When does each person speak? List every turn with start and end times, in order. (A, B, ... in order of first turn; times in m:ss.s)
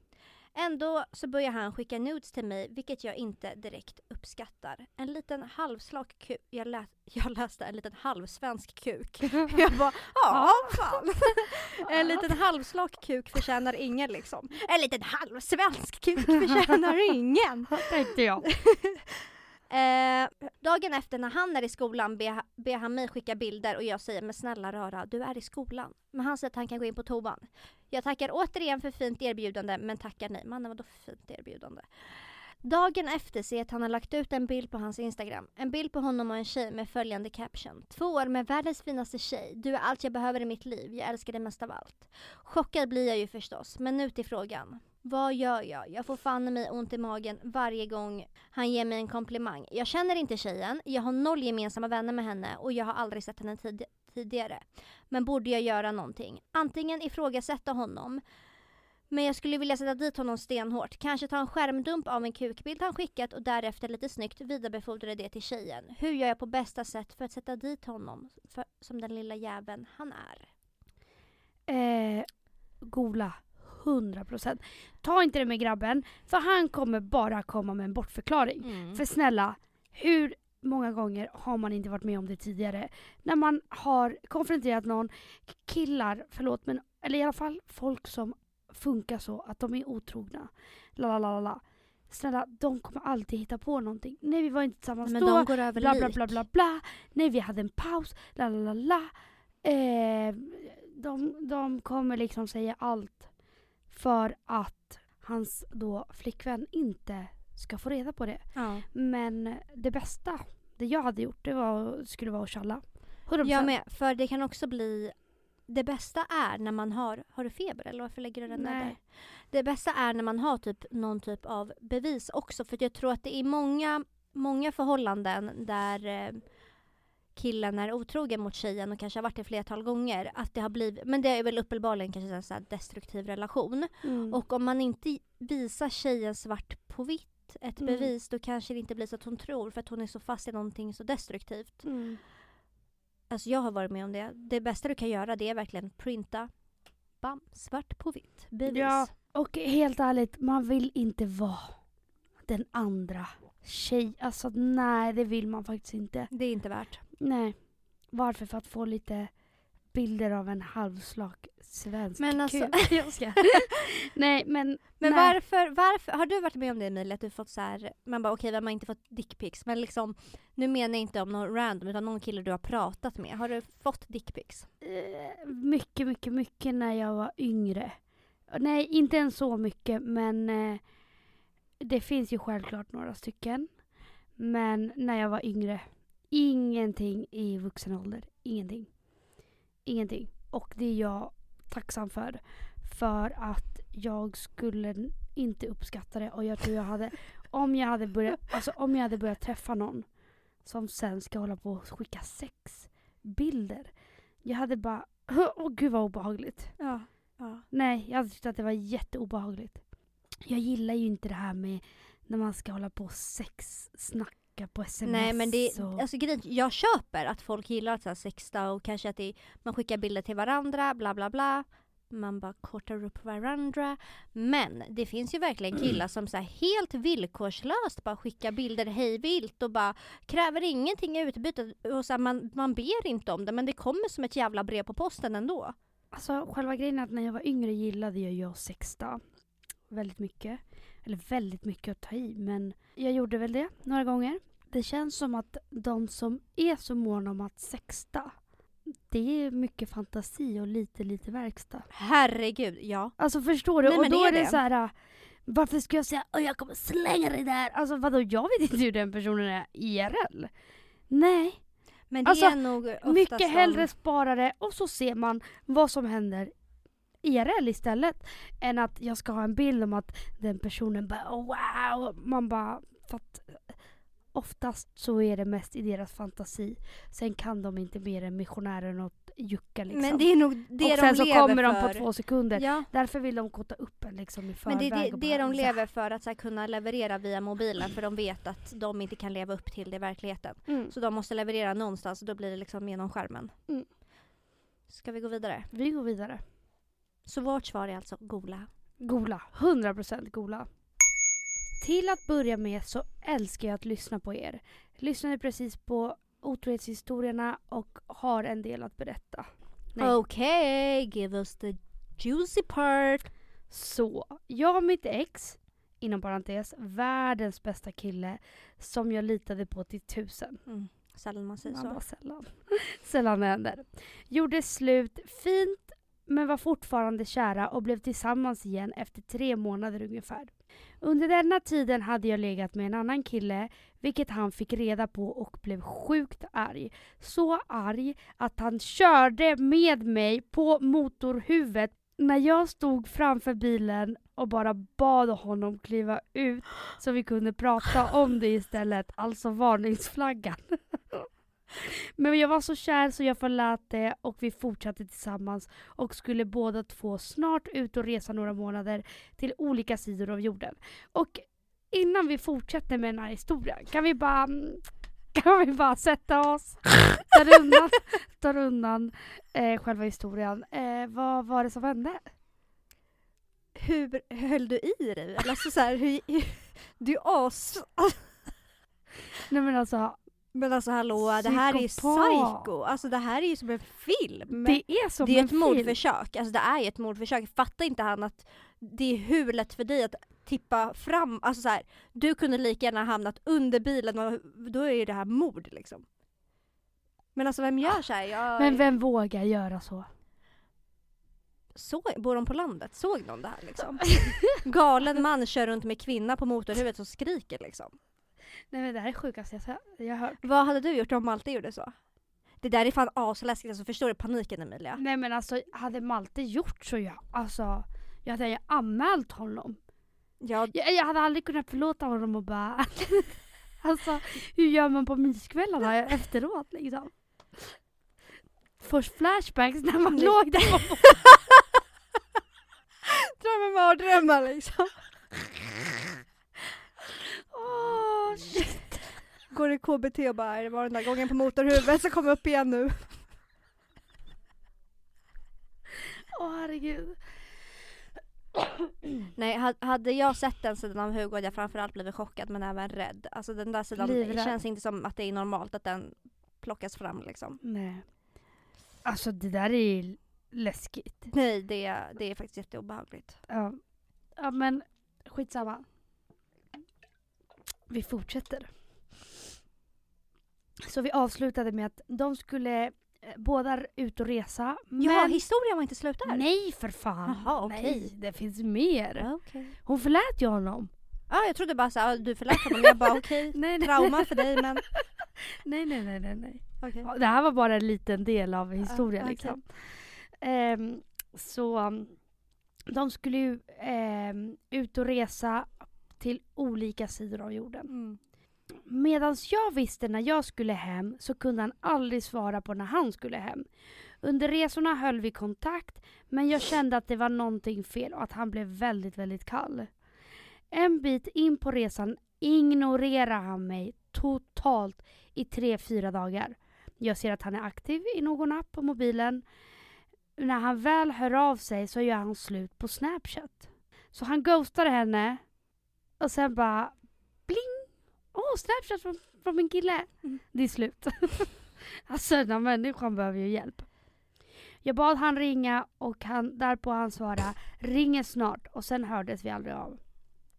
0:00.6-0:17.9 A
0:10.3-0:12.4 B
0:17.7-0:18.5 B
0:18.5-0:58.2 A
0:59.1-1:10.5 A
1:11.7-1:12.3 B
1:12.8-1:39.1 B
1:18.6-1:19.0 A
1:35.0-1:36.4 A
1:39.6-1:43.3 B
1:43.9-1:53.7 B
1:48.6-1:48.9 A
1:53.4-2:06.4 A
1:58.5-1:59.0 B
2:07.4-2:21.9 A
2:14.0-2:14.4 B
2:17.8-2:18.1 B
2:21.8-2:22.2 B
2:23.3-2:26.5 A
2:27.2-2:29.1 A
2:28.7-2:31.8 B
2:32.5-2:36.3 B
2:36.3-2:37.0 A
2:37.2-2:37.6 B
2:38.1-2:39.3 B
2:39.9-2:45.4 B
2:42.2-2:43.7 A
2:45.0-2:54.7 A
2:54.8-2:58.0 B
2:58.5-3:00.8 B
3:01.8-3:03.7 B
3:04.4-3:08.9 B
3:09.9-3:20.1 B
3:20.6-3:23.9 B
3:24.4-3:26.8 B
3:26.8-3:27.7 A
3:27.7-3:29.8 B
3:30.4-3:36.0 B
3:35.0-3:55.8 A
3:56.1-3:59.2 B
3:59.9-4:08.3 B
4:09.1-4:11.9 B
4:11.9-4:13.1 A
4:13.2-4:14.9 B
4:13.8-4:14.6 A
4:15.5-4:20.5 B
4:21.1-4:21.6 B
4:22.1-4:23.9 A
4:22.2-4:26.5 B
4:27.2-4:33.8 B
4:34.3-4:45.8 B
4:39.9-4:42.9 A
4:44.7-4:53.5 A
4:50.7-4:50.9 B
4:54.9-4:55.7 A
4:55.7-4:56.4 B
4:57.3-4:58.7 A
4:59.0-5:00.7 B
5:01.8-5:10.2 B
5:10.0-5:13.3 A
5:13.7-5:20.6 B
5:20.7-5:22.0 A
5:21.7-6:12.3 B
6:13.8-6:18.4 A
6:19.5-6:20.2 B
6:20.5-6:36.1 A
6:21.3-6:22.7 B
6:24.5-6:26.0 B
6:37.4-6:38.8 A
6:38.6-6:40.1 B
6:41.7-6:47.9 A
6:44.0-6:44.6 B
6:48.7-6:50.4 B
6:50.4-6:51.9 A
6:52.6-6:55.0 A
6:55.0-6:59.8 B
7:00.4-7:00.7 A
7:00.7-7:07.8 B
7:08.8-7:11.1 B
7:10.1-7:11.7 A
7:13.1-7:14.9 A
7:17.5-7:18.8 B
7:19.5-7:23.2 A
7:26.3-7:27.2 B
7:29.4-7:37.6 A
7:34.0-7:34.6 B
7:37.6-7:38.0 B
7:39.0-7:41.3 B
7:41.3-7:43.4 A
7:43.5-7:43.8 B
7:44.4-7:45.9 B
7:47.9-7:48.7 B
7:50.8-7:55.4 B
7:55.0-7:56.5 A
7:56.3-7:59.3 B
7:57.2-7:58.1 A
7:59.2-7:59.8 A
7:59.8-8:00.9 B
8:01.3-8:04.9 A
8:03.5-8:12.2 B
8:06.8-8:07.1 A
8:08.8-8:09.6 A
8:12.9-8:17.9 B
8:17.9-8:18.2 A
8:18.8-8:23.6 B
8:24.2-8:29.9 B
8:30.7-8:39.4 B
8:40.4-8:45.4 B
8:46.2-8:53.9 B
8:54.8-9:00.0 B